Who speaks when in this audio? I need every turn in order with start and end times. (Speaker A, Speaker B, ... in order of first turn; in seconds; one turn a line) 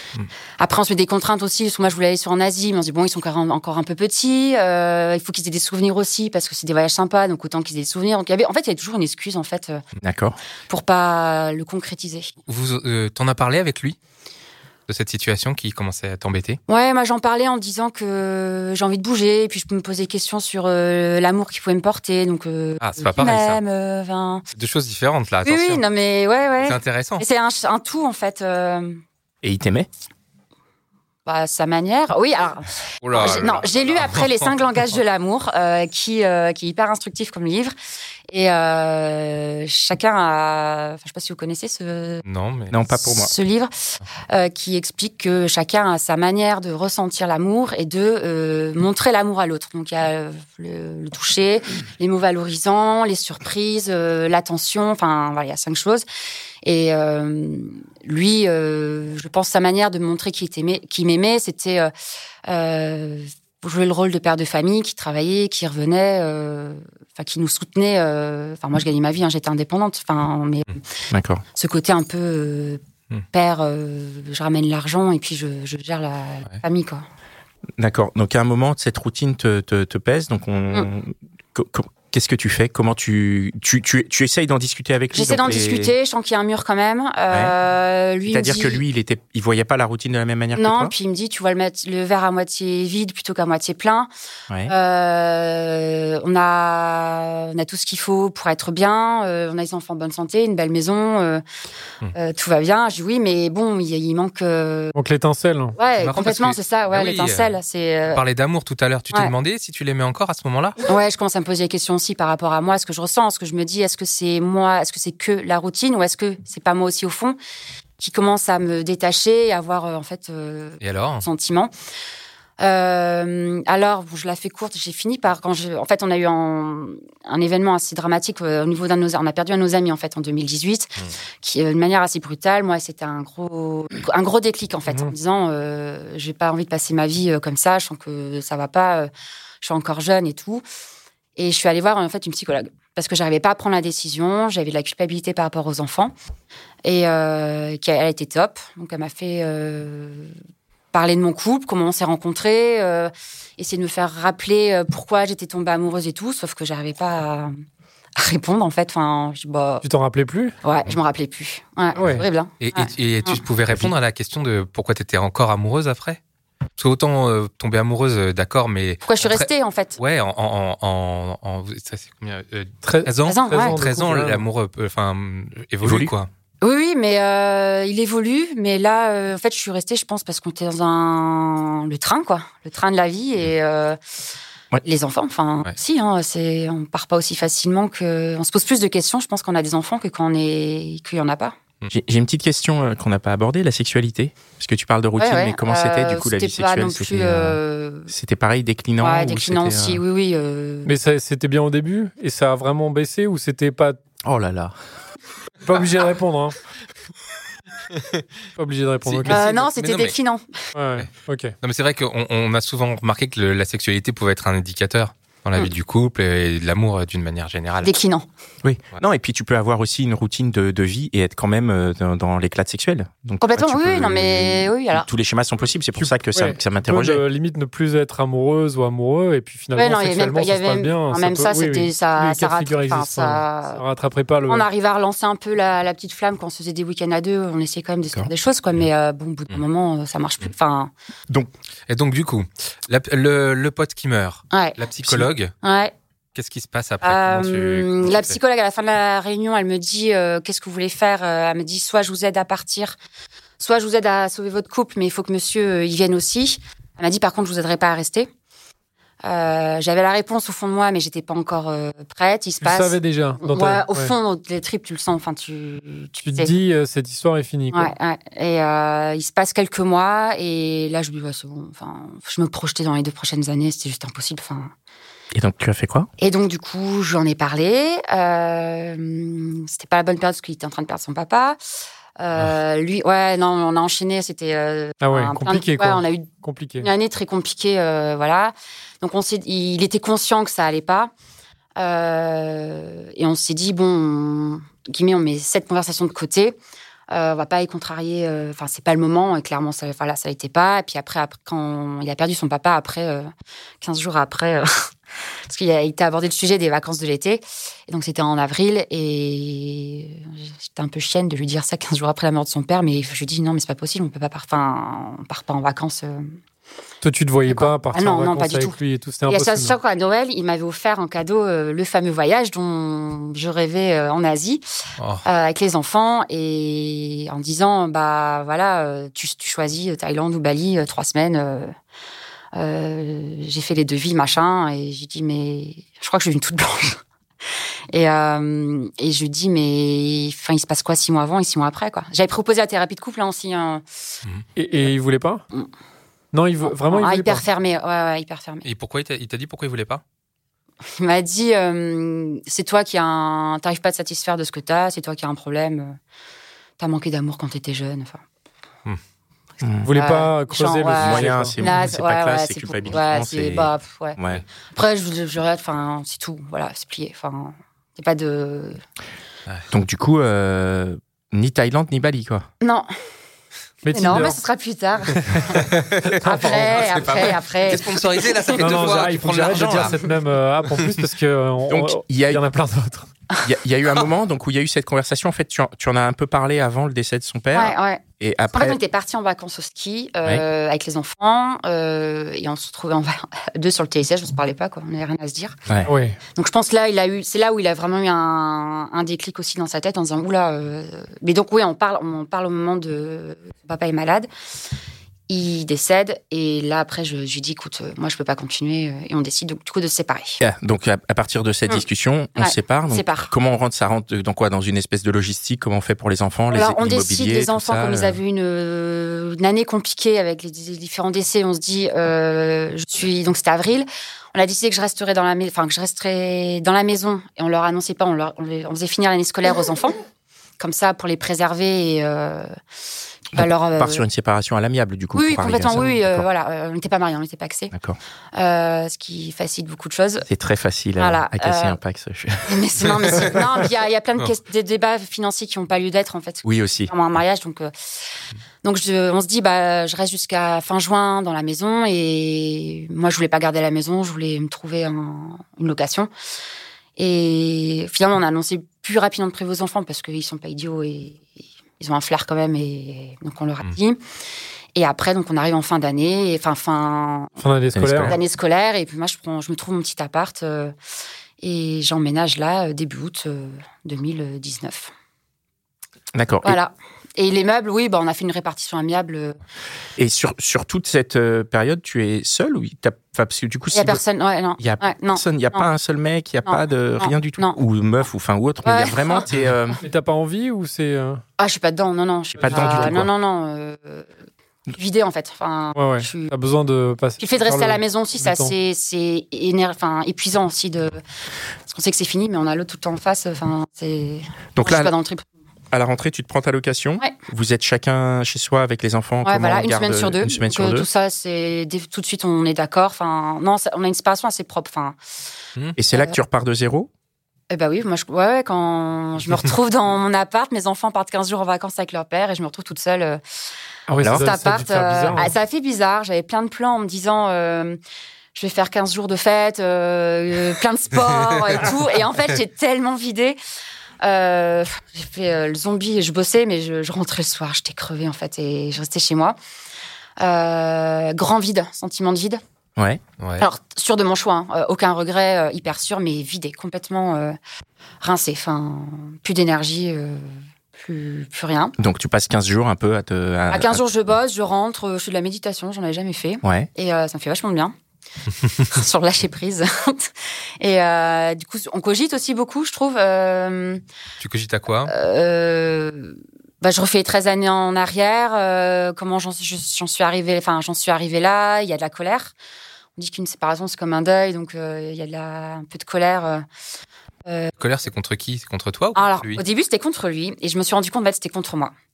Speaker A: 0.6-9.8
Speaker B: 10.0-10.4
Speaker A: 10.7-12.3
Speaker C: 12.5-14.0
Speaker C: 14.9-16.6
Speaker A: 16.7-24.4
Speaker C: 22.8-23.6
Speaker C: 24.6-25.8
Speaker A: 25.5-29.0
Speaker C: 26.6-27.2
Speaker B: 29.4-29.9
Speaker A: 31.3-37.8
Speaker C: 33.0-34.5
Speaker A: 38.3-42.2
Speaker C: 42.2-42.8
Speaker B: 42.7-43.3
Speaker A: 42.9-56.1
Speaker A: 56.6-61.9
Speaker A: 62.5-70.8
Speaker B: 71.1-71.4
Speaker A: 71.5-77.0
Speaker B: 77.8-85.9
Speaker A: 85.1-88.8
Speaker B: 88.3-90.9
Speaker A: 90.5-94.1
Speaker A: 94.7-101.4
Speaker A: 102.1-104.9
Speaker D: 104.9-105.8
Speaker A: 105.8-108.2
Speaker C: 106.0-107.5
Speaker C: 108.1-110.8
Speaker A: 110.9-117.4
Speaker A: 118.0-121.7
Speaker C: 120.8-121.3
Speaker A: 122.6-139.1
Speaker A: 139.6-140.6
Speaker A: 141.4-146.1
Speaker A: 146.8-150.3
Speaker A: 150.9-157.5
Speaker A: 158.2-159.8
Speaker D: 159.8-160.6
Speaker A: 160.6-163.4
Speaker D: 161.9-162.3
Speaker C: 162.0-166.2
Speaker C: 166.8-176.3
Speaker A: 169.1-170.0
Speaker D: 172.8-174.4
Speaker A: 173.3-173.8
Speaker B: 175.8-176.1
Speaker A: 176.6-184.0
Speaker A: 184.8-191.6
Speaker B: 191.9-200.0
Speaker A: 195.2-198.1
Speaker A: 199.0-200.9
Speaker D: 200.8-204.0
Speaker B: 204.3-204.7
Speaker D: 205.6-206.6
Speaker D: 208.6-209.4
Speaker C: 209.1-210.2
Speaker A: 209.3-210.6
Speaker D: 210.7-211.5
Speaker C: 211.6-217.9
Speaker A: 217.8-218.3
Speaker B: 218.6-227.2
Speaker A: 223.4-225.1
Speaker D: 226.0-234.7
Speaker A: 229.8-233.8
Speaker A: 234.5-240.9
Speaker C: 241.9-245.6
Speaker A: 244.5-244.8
Speaker A: 245.6-245.9
Speaker C: 246.3-248.4
Speaker A: 247.0-253.0
Speaker A: 253.6-258.3
Speaker A: 259.2-266.5
Speaker D: 262.6-264.1
Speaker D: 266.2-267.9
Speaker A: 267.7-274.7
Speaker B: 275.3-276.1
Speaker A: 276.2-281.6
Speaker A: 282.2-291.1
Speaker D: 285.0-286.9
Speaker A: 291.8-296.6
Speaker A: 297.1-303.3
Speaker A: 303.8-304.9
Speaker A: 305.5-316.4
Speaker D: 317.0-319.8
Speaker A: 317.5-318.8
Speaker A: 319.3-324.6
Speaker C: 325.0-325.2
Speaker A: 325.2-331.7
Speaker A: 332.5-337.0
Speaker A: 337.9-343.8
Speaker D: 344.6-345.4
Speaker D: 346.3-347.4
Speaker A: 346.8-348.7
Speaker C: 348.6-350.0
Speaker A: 350.9-356.0
Speaker A: 356.8-358.2
Speaker B: 359.6-359.9
Speaker D: 359.8-361.6
Speaker A: 359.9-364.2
Speaker B: 360.9-364.4
Speaker A: 364.7-368.8
Speaker B: 369.7-372.5
Speaker A: 372.6-372.9
Speaker D: 373.8-374.4
Speaker A: 373.9-378.0
Speaker D: 375.1-377.0
Speaker C: 375.5-380.1
Speaker D: 378.6-383.1
Speaker B: 379.5-379.9
Speaker C: 380.7-381.0
Speaker B: 381.7-382.4
Speaker B: 383.4-388.8
Speaker A: 387.5-395.6
Speaker D: 395.9-396.2
Speaker A: 396.3-404.3
Speaker A: 405.3-410.4
Speaker B: 410.4-418.2
Speaker A: 412.4-413.3
Speaker A: 416.5-430.0
Speaker A: 430.6-432.6
Speaker A: 433.3-434.0
Speaker B: 433.4-436.3
Speaker A: 435.1-437.7
Speaker B: 437.7-438.0
Speaker A: 438.3-440.3
Speaker B: 440.3-443.4
Speaker A: 441.0-441.8
Speaker A: 442.5-447.7
Speaker B: 446.4-446.9
Speaker A: 448.6-456.1
Speaker A: 457.0-461.3
Speaker A: 461.8-464.0
Speaker A: 464.8-467.4
Speaker D: 467.4-468.2
Speaker B: 467.7-468.2
Speaker A: 468.0-470.8
Speaker A: 471.4-474.9
Speaker B: 476.1-476.6
Speaker A: 476.4-479.4
Speaker B: 480.0-484.0
Speaker A: 483.7-485.7
Speaker B: 484.6-489.8
Speaker A: 486.5-487.6
Speaker A: 488.6-489.3
Speaker D: 489.8-491.2
Speaker A: 491.4-494.1
Speaker B: 492.4-493.1
Speaker D: 492.4-493.0
Speaker A: 494.7-496.3
Speaker D: 495.8-498.6
Speaker A: 497.2-501.0
Speaker A: 501.7-505.3
Speaker B: 504.6-504.9
Speaker B: 505.7-510.9
Speaker A: 509.2-515.0
Speaker B: 515.8-516.9
Speaker A: 517.5-523.2
Speaker D: 523.9-525.4
Speaker B: 524.0-524.3
Speaker A: 524.2-527.8
Speaker A: 528.4-533.4
Speaker A: 534.0-539.4
Speaker A: 540.2-542.4
Speaker C: 543.2-543.5
Speaker A: 543.4-547.4
Speaker A: 548.0-551.8
Speaker B: 551.8-553.8
Speaker A: 553.5-557.8
Speaker B: 556.4-556.7
Speaker A: 558.5-563.8
Speaker C: 564.2-564.9
Speaker A: 564.9-572.3
Speaker A: 573.0-576.5
Speaker A: 577.3-577.5
Speaker C: 577.6-579.4
Speaker A: 579.0-581.7